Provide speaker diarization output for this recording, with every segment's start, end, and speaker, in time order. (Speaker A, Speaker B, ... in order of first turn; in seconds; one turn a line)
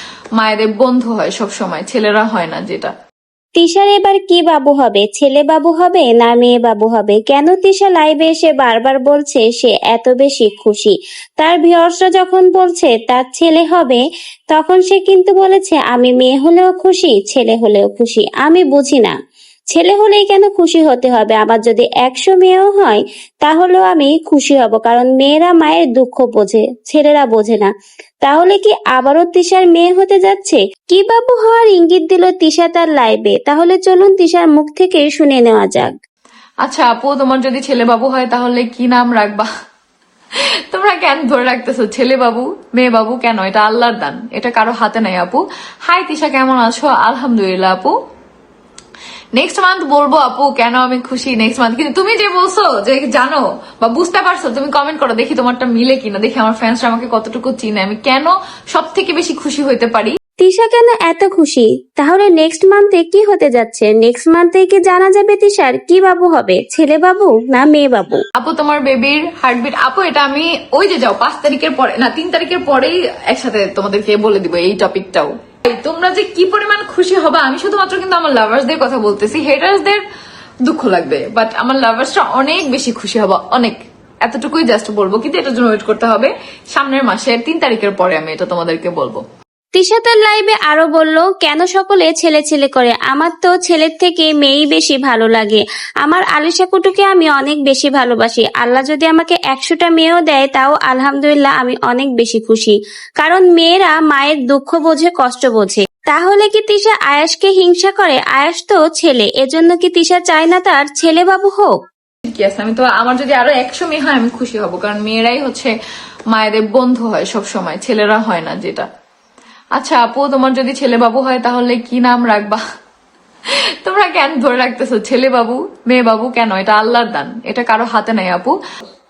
Speaker A: 0.4-2.9
Speaker B: 3.6-19.1
Speaker B: 19.7-27.7
Speaker B: 28.2-35.9
Speaker A: 36.6-39.5
Speaker A: 40.7-48.0
Speaker A: 49.4-60.1
Speaker B: 60.4-68.2
Speaker A: 68.4-80.0
Speaker A: 80.7-89.2
Speaker B: 89.8-111.7
Speaker A: 112.3-115.7
Speaker A: 116.3-118.9
Speaker A: 119.8-122.6
Speaker A: 123.8-128.6